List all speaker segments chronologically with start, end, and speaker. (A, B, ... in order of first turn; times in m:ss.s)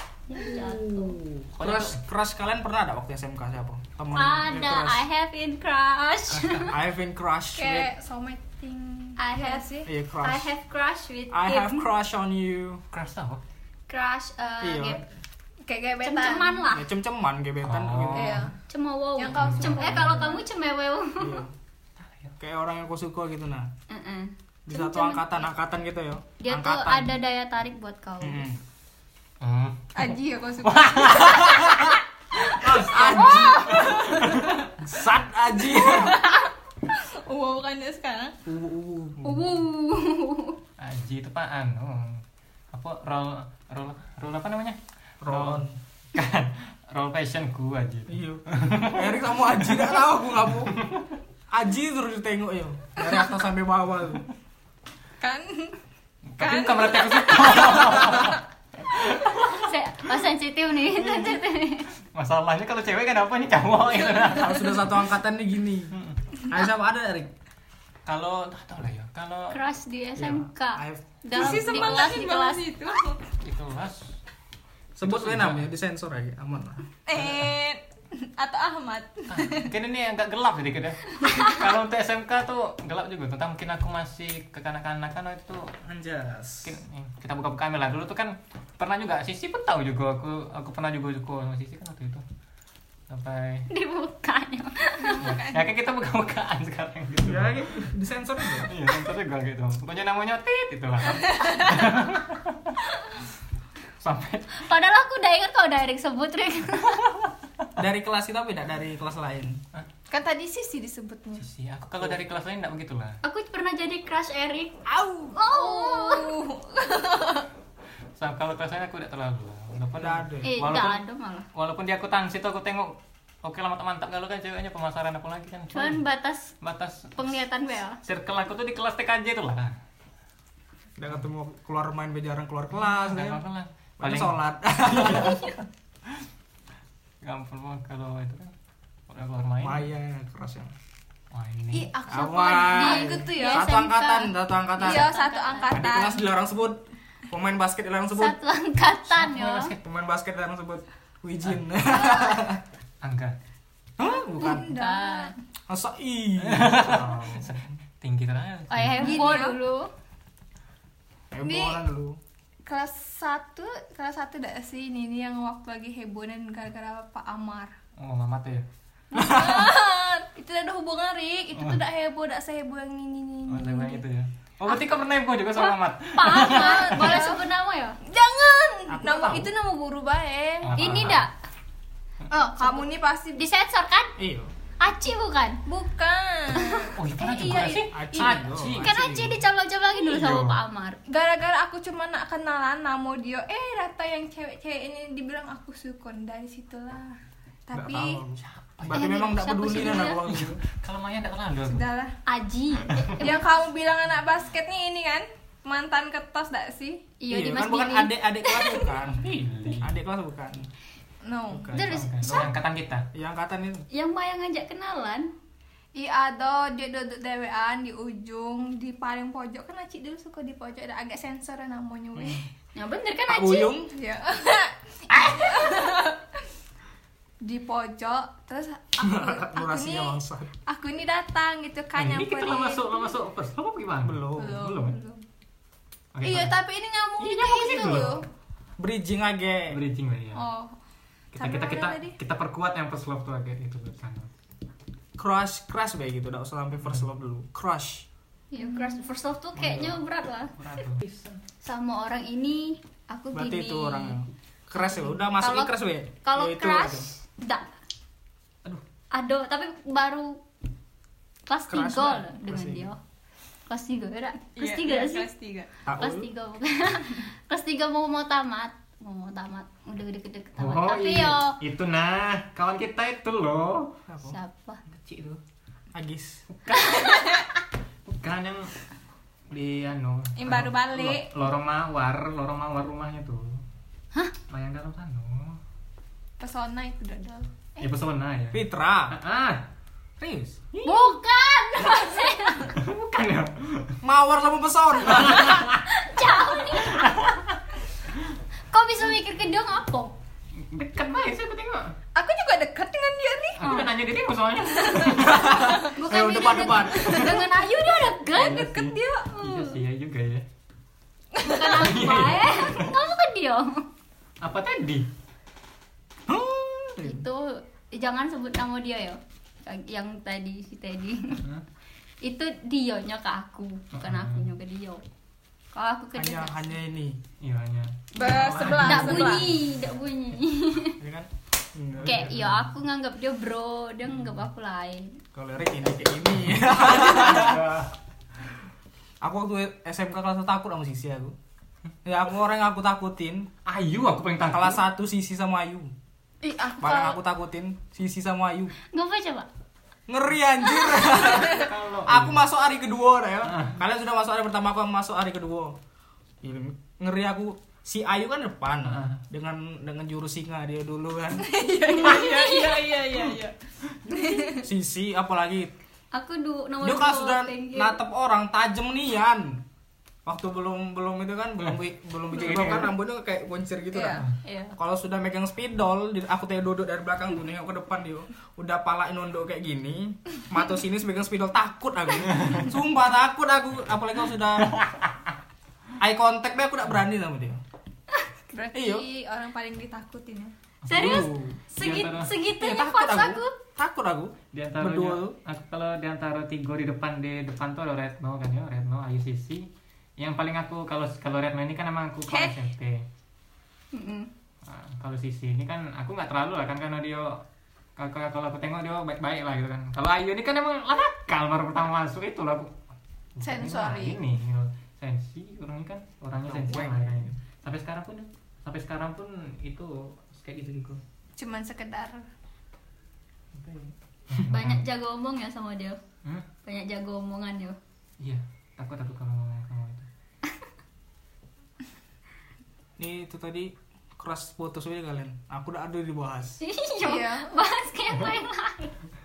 0:00.3-0:01.2 A
0:00.4-0:05.0 B
0:01.6-0:02.0 C
0:04.1-0:06.7 A
0:06.3-0:06.7 C
0:06.6-0:07.9 B
0:07.6-0:09.9 D
0:09.2-0:11.8 A
0:09.8-0:10.5 B
0:11.3-0:12.8 B
0:12.9-0:13.4 C
0:13.9-0:15.0 A
0:14.6-0:15.0 B
0:15.6-0:16.7 D
0:16.0-0:16.9 A
0:16.7-0:18.5 B
0:17.6-0:18.5 C
0:18.1-0:18.5 D
0:18.7-0:21.4 A
0:19.1-0:20.5 D
0:19.3-0:20.3 C
0:21.2-0:21.5 B
0:22.0-0:22.4 C
0:22.4-0:23.7 B
0:23.9-0:25.5 A
0:24.7-0:27.1 B
0:26.4-0:28.5 A
0:28.2-0:28.6 B
0:29.4-0:34.7 C
0:29.9-0:31.9 D
0:32.5-0:36.2 B
0:32.7-0:34.6 D
0:33.2-0:33.9 A
0:35.6-0:38.4 D
0:38.4-0:39.4 B
0:39.2-0:40.6 A
0:40.8-0:49.9 C
0:45.2-0:45.8 B
0:48.1-0:50.7 B
0:50.7-0:51.1 C
0:51.5-0:54.2 B
0:55.2-0:55.8 D
0:56.3-0:59.7 C
0:56.4-0:58.4 D
0:59.3-1:01.9 A
1:01.0-1:01.4 C
1:02.0-1:04.9 C
1:04.3-1:07.3 B
1:08.0-1:09.6 C
1:09.5-1:12.6 A
1:10.2-1:11.6 B
1:11.3-1:13.3 D
1:13.4-1:14.1 C
1:15.0-1:17.4 B
1:15.0-1:15.7 C
1:17.0-1:19.7 D
1:19.3-1:25.7 C
1:25.8-1:26.7 B
1:26.6-1:32.2 C
1:33.1-1:33.7 C
1:33.7-1:35.3 A
1:35.0-1:35.7 D
1:35.2-1:37.6 C
1:37.2-1:38.7 B
1:38.6-1:42.8 C
1:41.2-1:41.9 D
1:44.0-1:44.6 C
1:44.5-1:47.0 A
1:47.8-1:49.6 B
1:50.1-1:51.5 D
1:51.4-1:53.2 C
1:53.2-1:54.8 A
1:54.8-1:57.5 D
1:55.3-1:56.4 A
1:58.2-2:01.0 C
1:59.9-2:00.6 B
2:00.4-2:01.5 A
2:01.5-2:06.0 C
2:05.7-2:06.5 A
2:06.6-2:07.3 C
2:07.2-2:08.0 A
2:08.0-2:09.8 C
2:11.0-2:13.4 B
2:12.7-2:14.4 C
2:14.0-2:15.5 B
2:14.9-2:15.5 C
2:15.0-2:15.6 A
2:17.2-2:18.5 C
2:19.1-2:19.8 C
2:19.6-2:20.7 B
2:21.3-2:21.9 C
2:21.7-2:23.7 D
2:22.1-2:25.1 B
2:22.7-2:25.9 A
2:24.8-2:26.3 D
2:25.7-2:28.4 B
2:28.1-2:29.7 A
2:29.1-2:29.7 C
2:29.4-2:32.6 B
2:31.8-2:32.4 A
2:33.0-2:33.4 C
2:34.0-2:34.7 B
2:34.0-2:35.4 D
2:34.4-2:35.3 A
2:35.7-2:37.7 B
2:36.4-2:39.4 C
2:38.7-2:39.9 A
2:39.0-2:39.6 D
2:41.3-2:42.2 B
2:41.4-2:41.8 D
2:42.6-2:47.7 D
2:48.0-2:48.6 C
2:49.1-2:54.0 D
2:49.2-2:49.5 B
2:51.5-2:51.8 C
2:53.5-2:57.2 C
2:55.6-2:58.0 A
2:56.2-2:57.4 D
2:58.0-3:00.9 D
2:58.9-2:59.5 B
3:00.6-3:01.3 C
3:00.7-3:01.3 A
3:00.9-3:01.2 B
3:02.3-3:03.4 D
3:02.4-3:02.8 A
3:03.3-3:04.1 A
3:04.2-3:04.5 B
3:04.8-3:05.6 A
3:05.6-3:08.4 D
3:06.5-3:06.9 A
3:06.9-3:09.1 C
3:07.9-3:09.4 B
3:08.8-3:11.0 A
3:10.0-3:10.6 C
3:11.1-3:18.2 D
3:17.7-3:20.6 B
3:18.4-3:19.1 C
3:18.9-3:20.2 A
3:20.2-3:21.9 C
3:21.6-3:22.2 D
3:22.2-3:23.4 A
3:23.2-3:27.1 D
3:27.2-3:28.1 A
3:27.3-3:30.6 B
3:29.1-3:30.0 C
3:31.2-3:31.7 D
3:31.5-3:32.1 B
3:31.7-3:32.5 A
3:31.8-3:33.1 C
3:33.1-3:33.9 B
3:33.9-3:35.3 A
3:35.9-3:42.5 D
3:42.7-3:43.8 A
3:43.3-3:43.9 B
3:43.9-3:46.4 D
3:47.4-3:53.1 D
3:49.0-3:50.5 B
3:51.9-3:55.0 C
3:54.0-3:54.6 B
3:54.4-3:55.2 D
3:56.1-3:56.5 C
3:56.2-3:58.2 D
3:57.2-3:58.2 C
3:57.7-3:58.1 B
3:58.8-3:59.8 B
3:59.7-4:00.4 C
4:00.3-4:00.8 D
4:01.3-4:02.2 D
4:01.4-4:04.3 C
4:05.2-4:08.1 B
4:08.5-4:10.6 A
4:08.5-4:09.0 D
4:09.6-4:10.0 C
4:10.6-4:11.4 C
4:11.6-4:14.2 A
4:13.3-4:17.1 B
4:14.8-4:15.7 A
4:16.2-4:17.7 A
4:19.1-4:20.4 A
4:21.5-4:23.0 A
4:21.7-4:22.9 B
4:23.7-4:25.3 A
4:24.6-4:25.7 D
4:25.8-4:26.3 B
4:26.0-4:31.6 A
4:30.6-4:34.0 C
4:34.1-4:34.4 B
4:34.2-4:34.8 A
4:34.9-4:35.4 C
4:35.9-4:36.4 B
4:36.5-4:37.4 C
4:38.1-4:38.7 C
4:39.5-4:43.6 C
4:40.4-4:41.3 D
4:44.5-4:45.6 C
4:46.4-4:47.8 D
4:47.8-4:49.6 C
4:48.5-4:49.2 B
4:50.2-4:50.6 B
4:50.7-4:51.2 C
4:50.8-4:52.7 A
4:52.6-4:54.0 C
4:54.0-4:55.6 B
4:55.0-4:55.8 C
4:55.6-4:57.1 A
4:56.7-4:57.6 C
4:58.7-5:00.1 A
5:00.6-5:01.9 C
5:02.1-5:03.9 D
5:03.6-5:07.4 C
5:03.6-5:03.9 A
5:04.8-5:05.9 D
5:05.2-5:07.2 B
5:05.8-5:09.8 A
5:06.9-5:07.5 D
5:08.3-5:10.4 C
5:08.8-5:09.3 D
5:11.3-5:12.3 D
5:11.4-5:13.9 A
5:11.7-5:12.9 C
5:14.4-5:15.1 C
5:16.3-5:17.2 B
5:17.0-5:21.4 A
5:21.3-5:21.6 C
5:22.2-5:25.0 A
5:23.9-5:24.5 C
5:25.7-5:26.7 A
5:26.2-5:27.2 B
5:27.4-5:29.7 C
5:28.1-5:29.6 D
5:28.6-5:31.0 A
5:31.0-5:32.4 B
5:32.0-5:32.8 C
5:32.0-5:35.2 A
5:34.1-5:34.4 C
5:35.3-5:37.8 B
5:36.6-5:37.9 C
5:39.2-5:41.3 B
5:42.0-5:43.5 B
5:43.6-5:44.8 C
5:44.5-5:45.9 B
5:46.4-5:47.2 D
5:46.8-5:48.7 B
5:48.9-5:49.5 A
5:50.1-5:55.8 B
5:50.8-5:51.2 A
5:51.4-5:52.4 C
5:53.4-5:53.8 C
5:56.4-6:01.5 B
5:58.8-5:59.2 C
6:01.4-6:04.6 D
6:02.0-6:02.9 A
6:04.6-6:05.7 B
6:06.1-6:08.0 A
6:06.8-6:09.6 B
6:10.2-6:24.8 B
6:12.3-6:12.9 C
6:13.9-6:14.2 D
6:14.4-6:14.8 A
6:24.8-6:25.1 C
6:26.0-6:27.6 B
6:28.5-6:30.5 D
6:28.7-6:29.0 B
6:30.8-6:31.2 C
6:30.9-6:33.6 A
6:30.9-6:31.6 B
6:31.8-6:32.4 C
6:32.5-6:35.3 B
6:34.5-6:43.0 C
6:42.3-6:42.6 D
6:43.9-6:44.3 A
6:44.6-6:47.4 C
6:48.0-6:52.8 C
6:53.3-7:01.0 C
6:53.4-6:54.2 D
6:56.4-6:57.1 B
7:01.4-7:02.2 D
7:03.5-7:04.8 C
7:04.4-7:06.0 A
7:06.6-7:07.8 A
7:08.2-7:10.1 C
7:13.0-7:16.6 B
7:16.6-7:19.0 A
7:17.0-7:17.5 D